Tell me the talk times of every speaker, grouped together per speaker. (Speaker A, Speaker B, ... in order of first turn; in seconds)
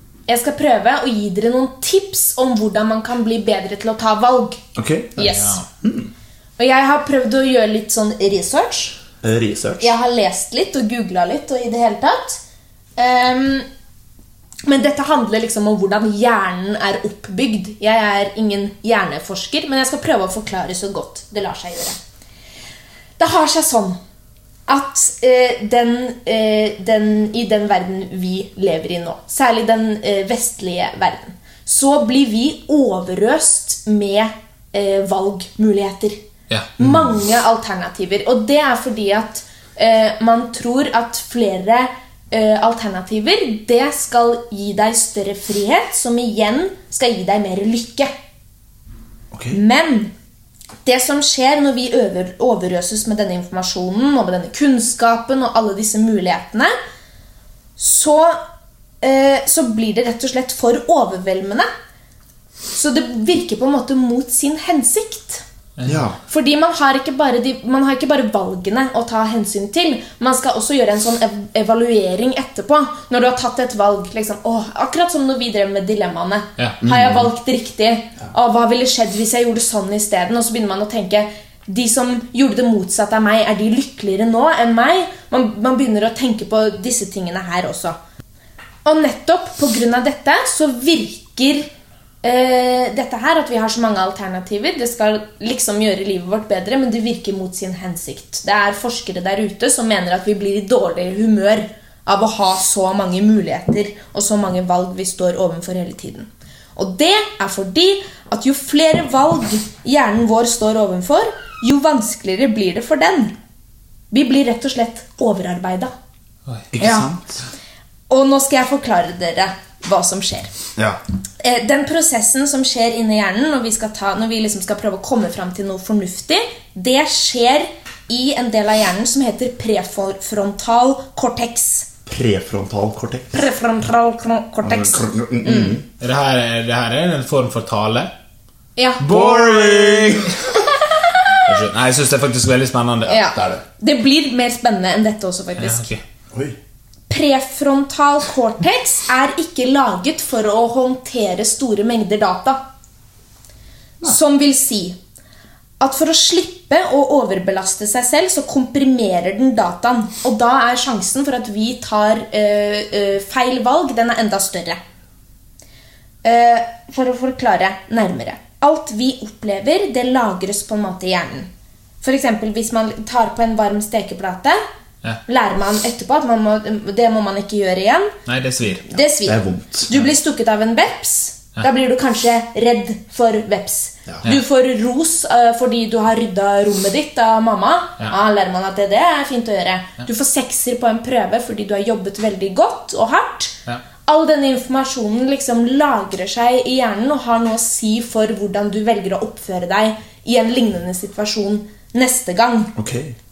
Speaker A: 0.3-4.6, 5.2-5.6, 6.6-9.0, 9.8-12.4, 13.0-13.7, 14.6-22.0, 23.2-24.0, 24.7-36.2, 36.8-48.1, 49.5-50.1, 50.8-56.7, 57.8-58.4, 59.0-61.7, 62.7-65.4, 66.3-88.0, 88.8-91.7, 92.2-113.3, 114.1-115.9, 116.8-117.1, 118.1-120.5, 121.4-131.9, 133.3-135.8, 138.8-139.3, 140.9-141.4, 143.1-145.9, 147.1-152.6, 154.0-155.0, 155.8-164.8, 166.2-171.5, 172.0-174.6, 175.2-178.1, 178.9-202.7
Speaker B: 4.7-5.3, 5.8-6.1, 9.2-9.9, 36.8-37.1, 49.3-49.6, 65.8-66.2, 76.8-77.3, 116.7-117.4, 132.1-133.4, 134.6-135.8, 139.1-140.4, 143.3-143.6, 146.3-146.6, 179.2-179.9, 202.8-203.1
Speaker C: 5.2-5.7, 65.8-66.0, 136.0-138.1, 139.0-140.4, 141.4-143.2, 145.6-146.0, 178.3-178.9